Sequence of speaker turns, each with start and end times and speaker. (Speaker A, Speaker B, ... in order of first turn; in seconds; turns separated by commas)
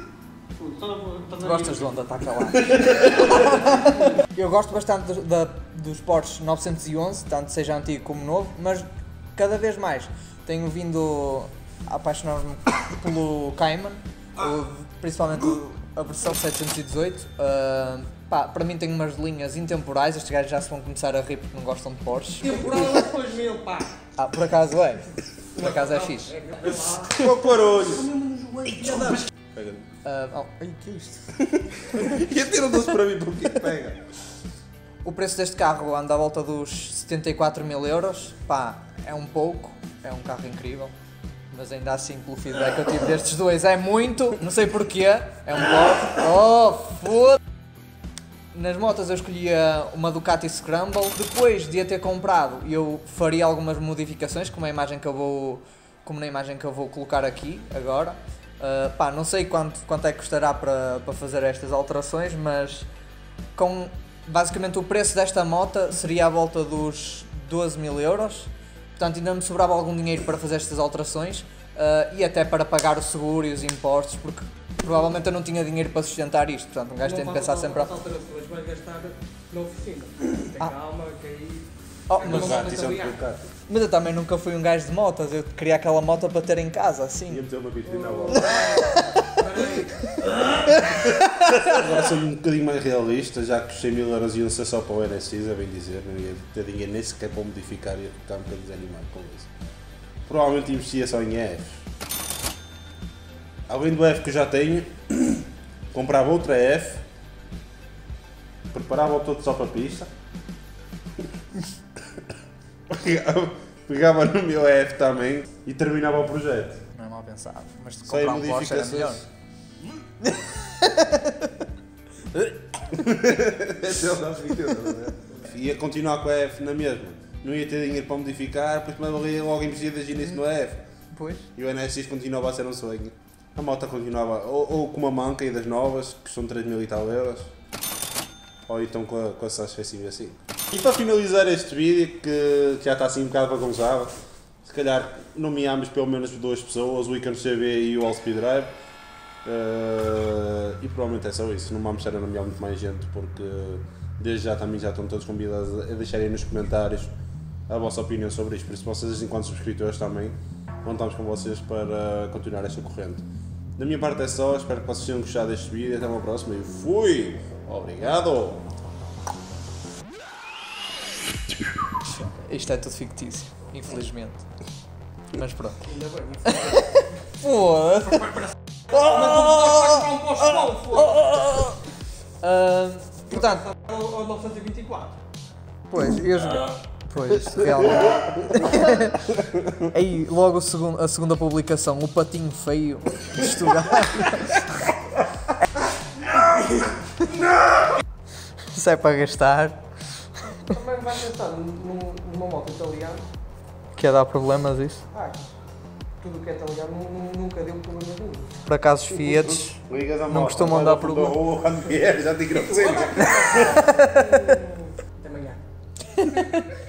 Speaker A: 0.6-1.9, Speaker B: 1.4-22.7, Speaker A: 3.0-4.0, Speaker A: 22.4-23.9, Speaker B: 24.2-26.4, Speaker A: 25.6-29.2, Speaker C: 27.1-28.1, Speaker C: 28.8-29.9, Speaker B: 30.0-31.2, Speaker C: 31.4-34.0, Speaker B: 35.0-40.9, Speaker B: 41.5-47.4, Speaker B: 48.5-62.9, Speaker B: 63.5-77.9, Speaker A: 77.0-83.2, Speaker B: 82.1-82.7, Speaker C: 82.2-83.5, Speaker B: 83.7-87.5, Speaker C: 87.3-88.5, Speaker A: 87.8-90.1, Speaker B: 88.5-89.7, Speaker C: 90.7-99.5, Speaker C: 100.3-101.9, Speaker C: 103.7-107.0, Speaker C: 108.7-110.1, Speaker C: 112.9-116.8, Speaker B: 116.9-119.3, Speaker C: 118.1-119.2, Speaker B: 120.2-121.5, Speaker C: 122.9-130.8, Speaker B: 131.1-131.5, Speaker C: 131.6-137.5, Speaker C: 138.7-144.1, Speaker C: 144.6-148.7, Speaker C: 149.4-157.1, Speaker C: 157.7-163.2, Speaker C: 163.8-168.7, Speaker B: 172.2-174.5, Speaker B: 175.3-175.8, Speaker A: 175.8-177.0, Speaker B: 176.6-178.5, Speaker A: 178.9-181.4, Speaker B: 179.3-180.0, Speaker B: 181.0-181.8, Speaker B: 182.4-183.7, Speaker A: 183.3-185.2, Speaker B: 185.9-194.7, Speaker C: 187.6-188.3, Speaker C: 189.4-189.8, Speaker B: 198.7-199.8, Speaker A: 200.6-203.2, Speaker B: 203.9-205.1, Speaker A: 205.1-205.5, Speaker A: 206.2-208.6, Speaker B: 208.7-211.4, Speaker C: 209.1-213.9, Speaker A: 211.9-215.6, Speaker B: 213.6-214.5, Speaker B: 216.2-216.6